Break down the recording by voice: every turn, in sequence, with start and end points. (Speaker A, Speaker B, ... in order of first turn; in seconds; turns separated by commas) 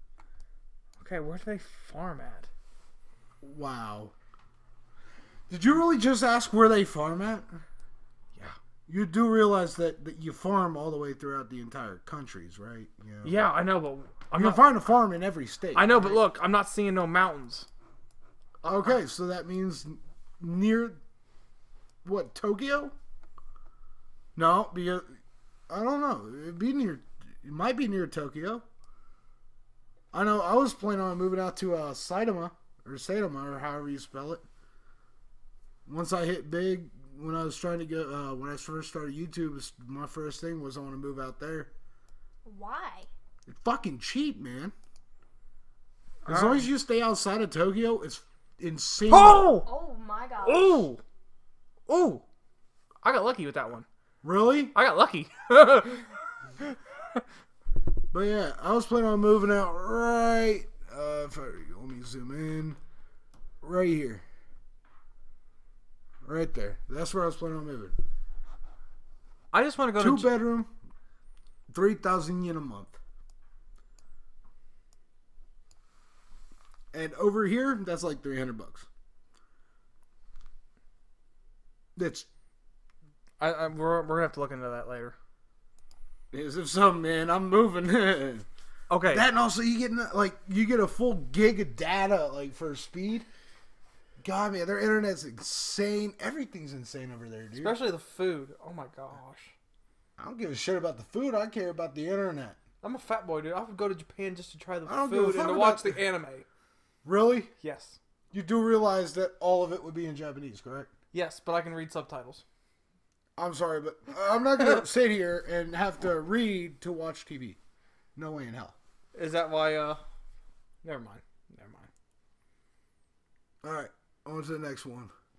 Speaker A: 1.0-2.5, Speaker B: 3.4-4.1, Speaker B: 5.5-7.6, Speaker B: 8.9-13.5, Speaker A: 13.2-14.7, Speaker B: 14.3-16.2, Speaker A: 15.7-17.7, Speaker B: 18.6-21.0, Speaker B: 22.0-22.9, Speaker B: 24.4-25.1, Speaker B: 25.7-28.6, Speaker B: 30.1-34.4, Speaker B: 35.9-41.7, Speaker C: 42.4-43.1, Speaker B: 43.5-44.7, Speaker A: 46.2-46.7, Speaker B: 46.3-49.5, Speaker A: 49.1-49.7, Speaker C: 49.6-50.9, Speaker A: 50.4-51.0, Speaker A: 51.9-52.2, Speaker A: 53.0-53.9, Speaker B: 54.2-54.7, Speaker A: 54.7-56.8, Speaker B: 58.1-62.8, Speaker B: 63.6-64.2, Speaker B: 66.2-67.9, Speaker A: 69.5-70.3, Speaker B: 70.0-70.7, Speaker B: 71.7-73.0, Speaker B: 76.9-78.9, Speaker B: 82.0-82.3, Speaker A: 83.4-85.2, Speaker B: 86.3-88.5, Speaker A: 88.9-89.2, Speaker B: 89.1-93.2, Speaker B: 94.2-97.8, Speaker A: 97.5-99.5, Speaker B: 100.2-102.6, Speaker A: 102.8-106.5, Speaker B: 104.8-106.0, Speaker B: 107.0-107.5, Speaker A: 107.6-108.0, Speaker B: 108.3-110.9, Speaker A: 111.1-112.4, Speaker B: 113.4-117.6, Speaker B: 118.2-118.7, Speaker A: 119.1-120.0, Speaker A: 120.8-121.9, Speaker B: 123.6-125.1